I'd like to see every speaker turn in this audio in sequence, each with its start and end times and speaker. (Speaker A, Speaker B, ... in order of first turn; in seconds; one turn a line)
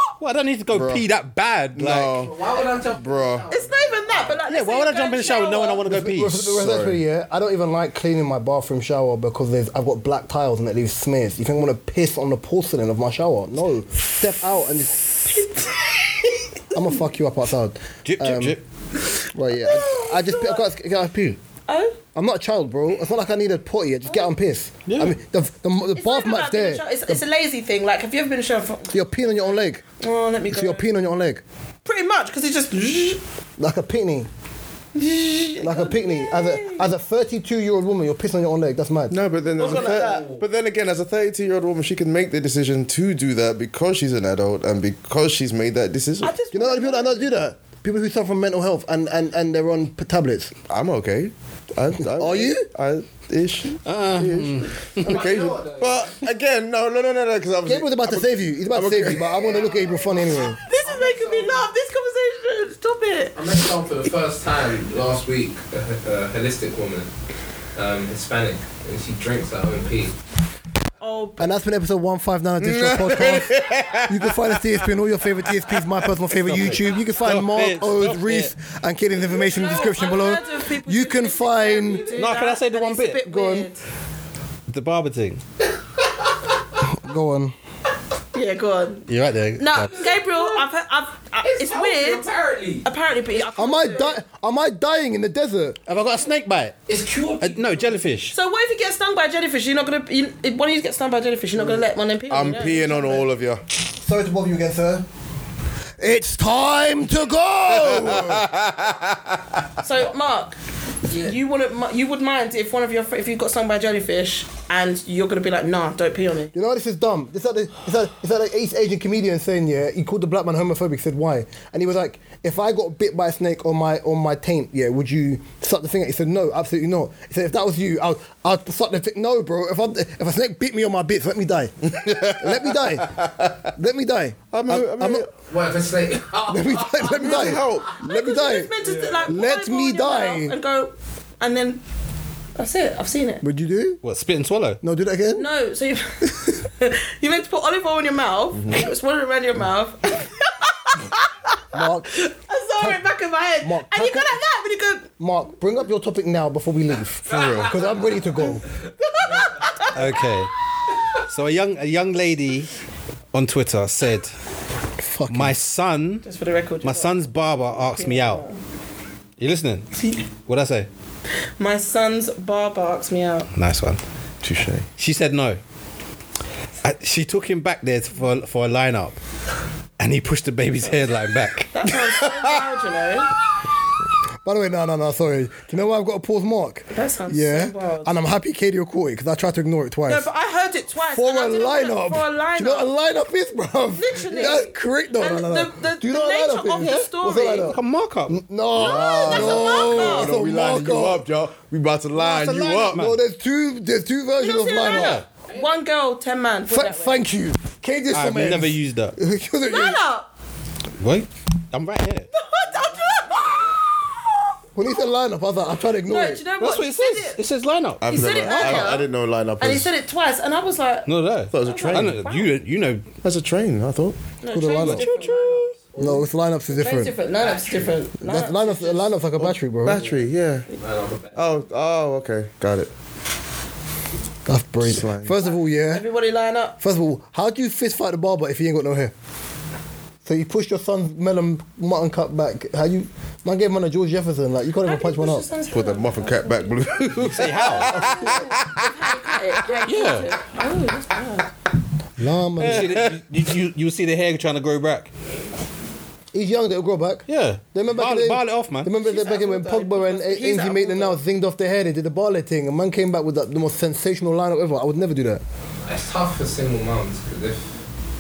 Speaker A: 0.2-2.3
Speaker B: 0.7-1.0
Speaker B: 1.8-3.5
Speaker C: 2.2-4.4
Speaker D: 3.5-5.8
Speaker A: 4.5-6.5
Speaker E: 5.9-15.5
Speaker B: 6.4-7.0
Speaker D: 15.3-16.4
Speaker E: 16.7-18.6
Speaker A: 18.1-18.6
Speaker E: 19.3-21.4
Speaker D: 19.7-20.6
Speaker D: 21.7-22.0
Speaker E: 22.1-27.2
Speaker A: 24.9-25.2
Speaker D: 25.9-29.4
Speaker E: 28.9-29.9
Speaker D: 29.9-30.9
Speaker E: 30.5-31.4
Speaker D: 31.9-33.2
Speaker E: 33.6-34.3
Speaker D: 34.9-36.9
Speaker E: 35.6-39.1
Speaker B: 39.1-46.3
Speaker D: 39.6-40.4
Speaker C: 39.6-40.4
Speaker D: 46.2-47.3
Speaker E: 46.5-50.5
Speaker B: 50.7-59.5
Speaker E: 52.0-52.7
Speaker A: 53.8-55.1
Speaker C: 55.0-56.2
Speaker E: 57.6-60.6
Speaker C: 59.4-60.3
Speaker D: 60.5-63.4
Speaker C: 60.8-61.7
Speaker C: 63.4-67.1
Speaker C: 67.8-70.1
Speaker D: 71.0-71.5
Speaker E: 71.4-82.1
Speaker B: 72.6-74.8
Speaker A: 76.4-78.5
Speaker D: 79.3-83.8
Speaker A: 82.0-83.2
Speaker E: 83.2-83.7
Speaker A: 84.7-85.4
Speaker C: 86.0-86.4
Speaker E: 86.8-87.5
Speaker D: 88.3-92.3
Speaker A: 89.1-90.1
Speaker C: 90.0-90.6
Speaker C: 91.4-92.9
Speaker D: 92.8-94.2
Speaker E: 93.5-95.8
Speaker A: 95.9-96.8
Speaker C: 96.9-97.9
Speaker A: 97.4-98.3
Speaker D: 98.3-103.3
Speaker B: 102.3-103.6
Speaker E: 104.0-105.1
Speaker E: 106.0-108.5
Speaker B: 107.7-109.7
Speaker D: 109.8-110.6
Speaker D: 111.1-116.5
Speaker E: 116.5-135.3
Speaker B: 131.9-133.6
Speaker B: 134.5-135.3
Speaker C: 135.5-137.8
Speaker E: 136.5-140.6
Speaker B: 137.0-138.2
Speaker D: 138.0-141.8
Speaker D: 142.6-143.4
Speaker E: 143.4-144.0
Speaker A: 144.0-144.8
Speaker E: 144.8-145.5
Speaker D: 145.3-155.1
Speaker B: 148.5-148.9
Speaker E: 151.7-152.1
Speaker E: 153.6-154.4
Speaker E: 155.2-158.7
Speaker B: 157.3-157.8
Speaker C: 157.3-158.2
Speaker D: 159.0-160.1
Speaker A: 159.9-160.5
Speaker A: 161.2-162.7
Speaker A: 163.3-164.3
Speaker E: 165.0-165.6
Speaker A: 165.3-166.3
Speaker D: 166.2-168.6
Speaker A: 166.8-168.4
Speaker A: 169.4-169.9
Speaker D: 170.0-170.2
Speaker A: 170.4-170.9
Speaker D: 171.6-173.5
Speaker A: 173.5-174.0
Speaker B: 174.4-174.9
Speaker A: 175.0-175.6
Speaker A: 176.8-179.2
Speaker A: 180.0-181.7
Speaker D: 181.7-183.3
Speaker B: 181.9-182.6
Speaker E: 184.4-190.3
Speaker D: 186.9-188.1
Speaker D: 190.1-192.9
Speaker E: 191.1-201.2
Speaker D: 193.9-197.8
Speaker A: 196.8-198.4
Speaker B: 198.7-203.0
Speaker D: 198.9-200.4
Speaker A: 202.2-203.2
Speaker E: 202.2-205.2
Speaker D: 204.4-207.2
Speaker A: 204.9-205.3
Speaker E: 206.7-210.0
Speaker A: 208.1-209.2
Speaker D: 209.7-210.3
Speaker A: 211.0-212.3
Speaker D: 212.3-215.0
Speaker C: 212.7-213.8
Speaker E: 214.8-216.4
Speaker D: 216.1-217.4
Speaker A: 216.6-218.8
Speaker B: 218.0-219.9
Speaker D: 218.1-222.5
Speaker A: 221.1-223.1
Speaker B: 221.5-222.2
Speaker B: 223.2-224.2
Speaker D: 224.4-225.7
Speaker E: 224.5-225.1
Speaker A: 224.8-225.8
Speaker C: 225.9-226.2
Speaker E: 226.0-227.1
Speaker D: 226.7-229.2
Speaker C: 227.4-227.9
Speaker E: 228.2-230.0
Speaker B: 229.4-230.7
Speaker C: 229.9-231.5
Speaker B: 231.3-232.9
Speaker E: 234.5-236.1
Speaker B: 234.8-235.4
Speaker D: 235.9-236.8
Speaker E: 236.8-239.1
Speaker E: 240.2-245.5
Speaker D: 244.8-251.5
Speaker B: 245.7-249.7
Speaker A: 247.2-248.1
Speaker A: 249.8-250.4
Speaker E: 252.2-253.1
Speaker A: 252.6-255.1
Speaker B: 252.8-253.0
Speaker E: 256.3-265.4
Speaker A: 257.3-258.9
Speaker D: 258.9-261.2
Speaker C: 265.9-267.9